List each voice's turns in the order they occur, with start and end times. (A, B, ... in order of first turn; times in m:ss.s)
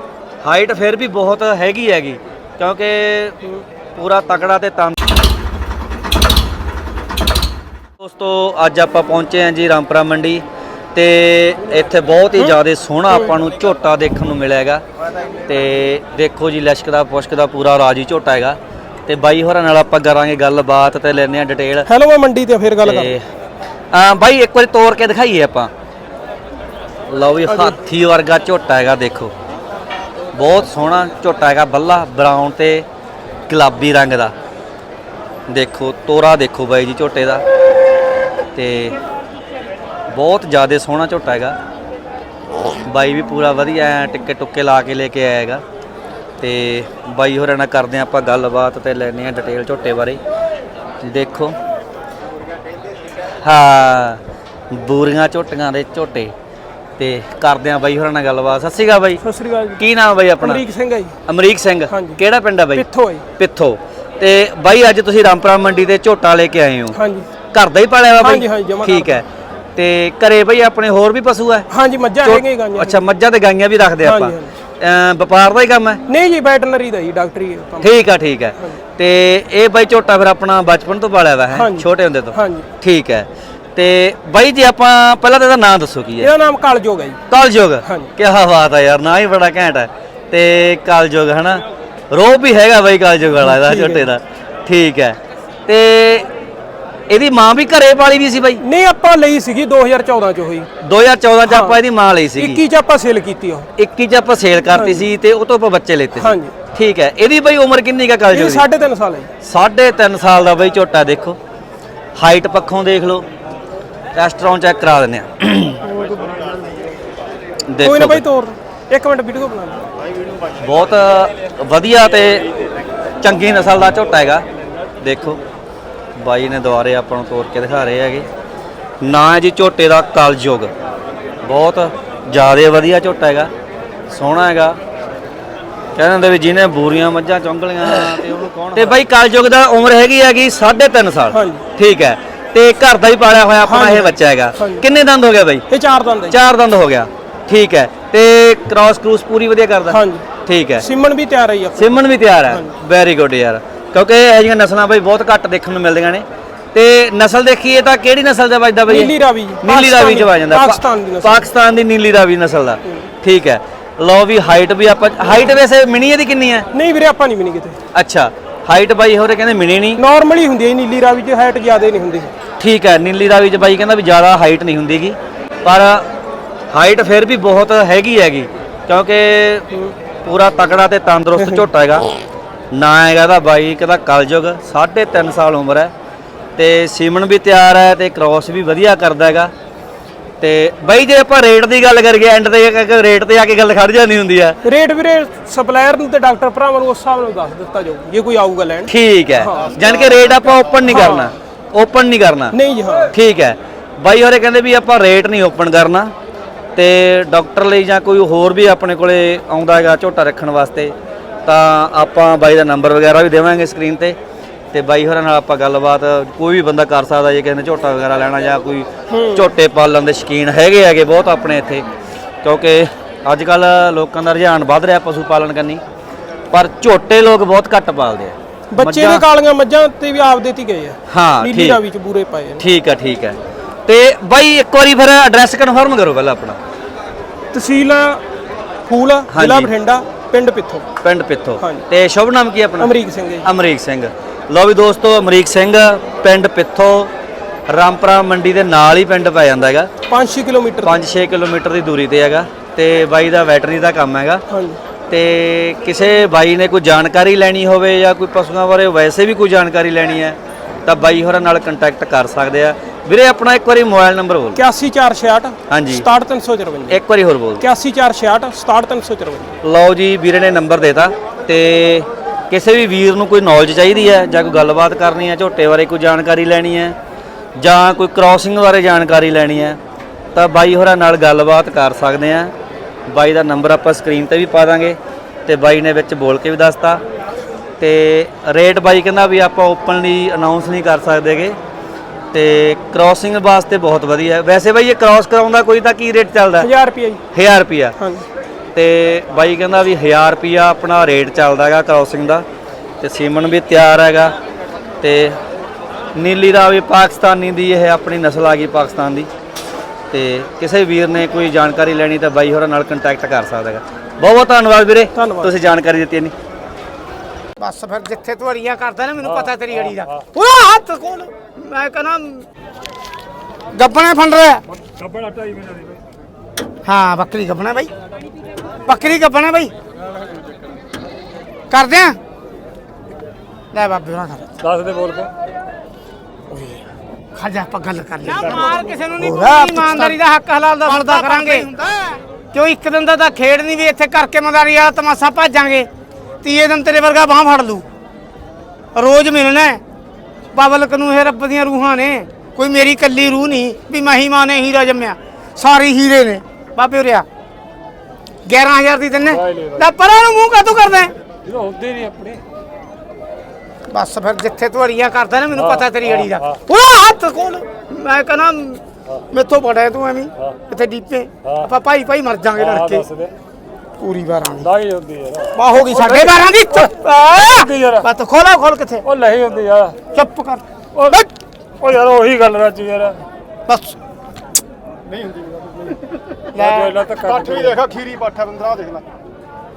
0:00.4-0:03.4 A
0:04.0-0:05.0 A
0:08.0-0:14.8 A
0:15.5-0:21.9 A
0:21.9-0:23.1 B
0:22.8-0:23.2 A
0:23.9-0:25.7 A
0:27.1-0:29.3 A
0:27.5-0:27.8 B
0:30.3-0:32.9 A
0:33.5-0:34.3 A
0:35.5-0:37.4 A
0:38.6-0:39.0 A
0:40.1-0:41.6 A
0:42.8-0:45.6 A
0:46.4-0:50.2 A
0:51.0-0:51.6 A
0:53.4-0:56.3 A
0:57.0-0:59.2 A
0:59.2-0:59.8 B
0:59.8-1:00.6 A
1:00.4-1:01.1 B
1:01.3-1:02.8 A
1:01.9-1:02.2 B
1:02.7-1:03.2 B
1:03.4-1:07.0 A
1:06.9-1:07.3 B
1:07.5-1:09.2 A
1:08.2-1:09.2 B
1:09.8-1:11.7 A
1:11.7-1:13.0 B
1:12.2-1:16.0 A
1:14.0-1:14.5 B
1:16.1-1:17.9 B
1:17.8-1:26.3 A
1:21.5-1:22.7 B
1:26.2-1:27.2 B
1:27.3-1:36.3 A
1:33.4-1:34.1 B
1:37.1-1:38.6 A
1:38.6-1:40.7 B
1:40.8-1:42.6 A
1:41.5-1:41.8 B
1:42.4-1:43.7 B
1:43.8-1:48.7 A
1:44.7-1:45.1 B
1:46.2-1:46.6 B
1:48.3-1:49.3 B
1:49.4-1:51.4 A
1:52.2-1:53.2 A
1:54.2-1:55.8 A
1:55.9-1:56.6 B
1:57.7-1:58.2 A
1:57.8-1:59.9 B
2:00.6-2:02.5 A
2:03.2-2:04.4 A
2:05.0-2:05.4 A
2:06.2-2:08.3 A
2:09.0-2:10.7 A
2:11.4-2:13.5 A
2:14.1-2:14.8 A
2:16.0-2:25.6 A
2:21.3-2:21.6 B
2:23.7-2:24.8 B
2:25.7-2:26.4 B
2:26.3-2:30.9 A
2:29.9-2:30.2 B
2:30.8-2:32.0 B
2:31.8-2:46.7 A
2:32.5-2:32.7 B
2:38.9-2:41.4 B
2:46.7-2:47.8 B
2:47.9-2:50.0 A
2:50.0-2:52.3 B
2:52.6-2:56.1 A
2:56.7-2:59.7 A
3:00.2-3:02.1 A
3:02.7-3:05.9 A
3:06.6-3:09.5 A
3:10.4-3:14.6 A
3:14.6-3:19.8 B
3:18.9-3:22.6 A
3:20.9-3:21.3 B
3:22.5-3:23.1 B
3:23.1-3:26.1 A
3:26.8-3:34.2 A
3:34.7-3:41.9 A
3:39.1-3:39.5 B
3:42.4-3:45.8 A
3:46.5-3:49.2 A
3:48.7-3:52.6 B
3:51.1-3:51.8 A
3:52.6-3:56.6 A
3:57.5-3:58.2 B
3:58.9-4:00.9 B
3:59.3-3:59.7 A
4:01.0-4:07.1 A
4:02.8-4:03.5 B
4:07.7-4:09.9 A
4:10.1-4:11.0 B
4:10.8-4:14.4 A
4:14.5-4:14.8 B
4:15.1-4:24.6 A
4:24.6-4:27.0 B
4:25.7-4:26.0 A
4:26.9-4:27.6 A
4:27.6-4:29.5 B
4:29.6-4:37.0 A
4:37.6-4:39.8 A
4:40.4-4:42.5 A
4:43.1-4:47.0 A
4:47.8-4:51.6 A
4:52.3-4:56.7 A
4:56.6-4:57.2 B
4:57.3-4:58.0 A
4:58.0-4:58.3 B
4:58.8-5:02.4 A
5:03.0-5:04.4 A
5:05.0-5:05.4 A
5:06.2-5:09.3 A
5:10.1-5:16.3 A
5:15.2-5:15.5 B
5:17.6-5:22.5 C
5:23.7-5:24.6 C
5:24.9-5:26.0 D
5:26.9-5:27.9 C
5:28.9-5:29.7 C
5:31.7-5:32.2 C
5:33.7-5:34.5 C
5:34.6-5:35.3 D
5:36.5-5:36.8 B
5:37.4-5:45.9 C
5:39.2-5:40.1 B
5:46.4-5:47.8 C
5:49.0-5:49.8 C
5:50.5-5:57.2 C
5:58.4-6:01.1 C
5:59.5-5:59.8 D
6:01.5-6:02.4 D
6:03.9-6:13.1 C
6:12.8-6:13.3 D
6:14.0-6:14.7 C
6:14.7-6:16.1 D
6:15.5-6:19.0 C
6:17.7-6:18.0 D
6:19.1-6:20.0 D
6:20.1-6:21.3 C
6:21.8-6:23.2 D
6:23.7-6:24.0 C
6:25.0-6:26.0 E
6:26.5-6:27.0 C
6:26.7-6:27.6 D
6:27.2-6:29.1 E